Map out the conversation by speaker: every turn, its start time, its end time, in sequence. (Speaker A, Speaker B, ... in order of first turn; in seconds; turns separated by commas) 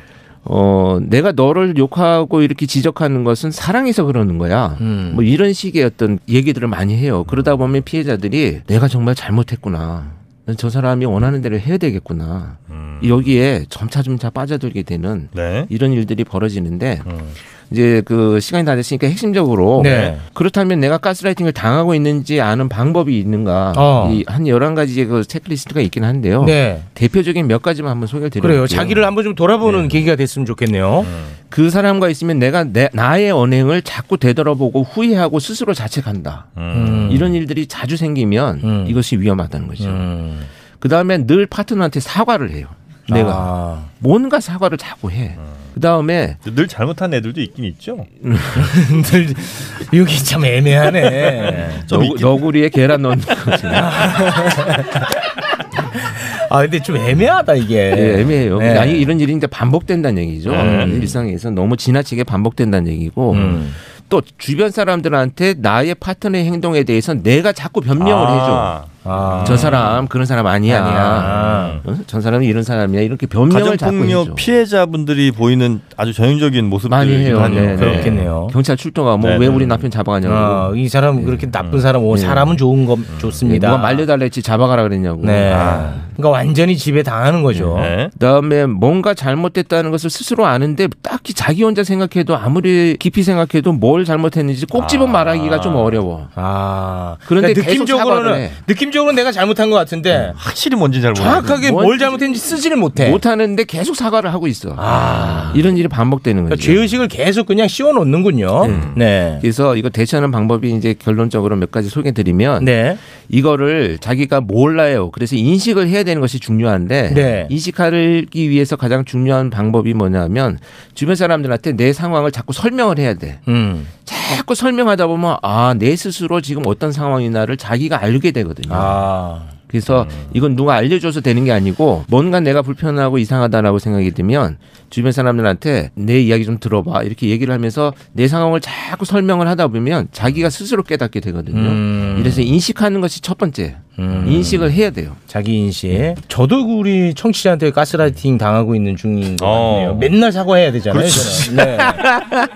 Speaker A: 0.4-17.1, Speaker B: 4.8-5.2, Speaker C: 12.7-13.2, Speaker C: 15.3-15.7, Speaker C: 17.1-17.3, Speaker A: 17.7-29.1, Speaker B: 19.8-20.2, Speaker B: 23.7-24.2, Speaker B: 26.4-26.9, Speaker B: 28.4-31.1, Speaker A: 29.6-30.0, Speaker C: 31.0-31.3, Speaker A: 31.5-36.5, Speaker C: 36.5-37.3, Speaker B: 36.7-37.3, Speaker A: 37.1-40.1, Speaker B: 38.6-39.0, Speaker B: 39.8-40.5, Speaker A: 40.8-46.4, Speaker B: 43.1-43.9, Speaker C: 46.4-48.1, Speaker A: 48.2-48.7, Speaker B: 48.5-51.9, Speaker C: 51.7-52.4, Speaker A: 51.8-54.0, Speaker B: 53.7-54.9, Speaker B: 55.9-59.1, Speaker A: 57.9-68.8, Speaker C: 60.5-61.0, Speaker B: 60.5-61.2, Speaker B: 63.3-63.8, Speaker C: 68.0-69.8, Speaker B: 69.0-69.9, Speaker A: 69.4-74.5, Speaker B: 70.6-71.8, Speaker C: 71.2-71.8, Speaker C: 73.5-78.2, Speaker A: 76.9-81.5, Speaker B: 77.3-78.5, Speaker C: 79.2-79.8, Speaker B: 80.2-84.1, Speaker C: 81.6-81.9, Speaker A: 82.1-82.6, Speaker C: 83.1-83.4, Speaker A: 83.4-86.1, Speaker B: 85.2-87.9, Speaker C: 85.5-85.9, Speaker A: 87.5-96.3, Speaker C: 87.7-88.1, Speaker C: 94.7-96.0, Speaker B: 96.3-100.4, Speaker A: 97.2-98.6, Speaker C: 100.3-101.5, Speaker B: 101.1-103.2, Speaker A: 101.2-102.2, Speaker A: 102.9-106.8, Speaker B: 104.8-105.6, Speaker B: 106.5-109.4, Speaker A: 108.6-123.4, Speaker B: 112.6-113.0, Speaker B: 117.1-117.5, Speaker B: 123.5-123.9, Speaker A: 124.0-129.0, Speaker B: 128.7-129.5, Speaker A: 129.7-145.2, Speaker C: 130.0-130.3, Speaker B: 141.5-142.5, Speaker B: 144.0-144.7, Speaker B: 145.3-152.3, Speaker C: 149.4-150.1, Speaker C: 150.9-151.7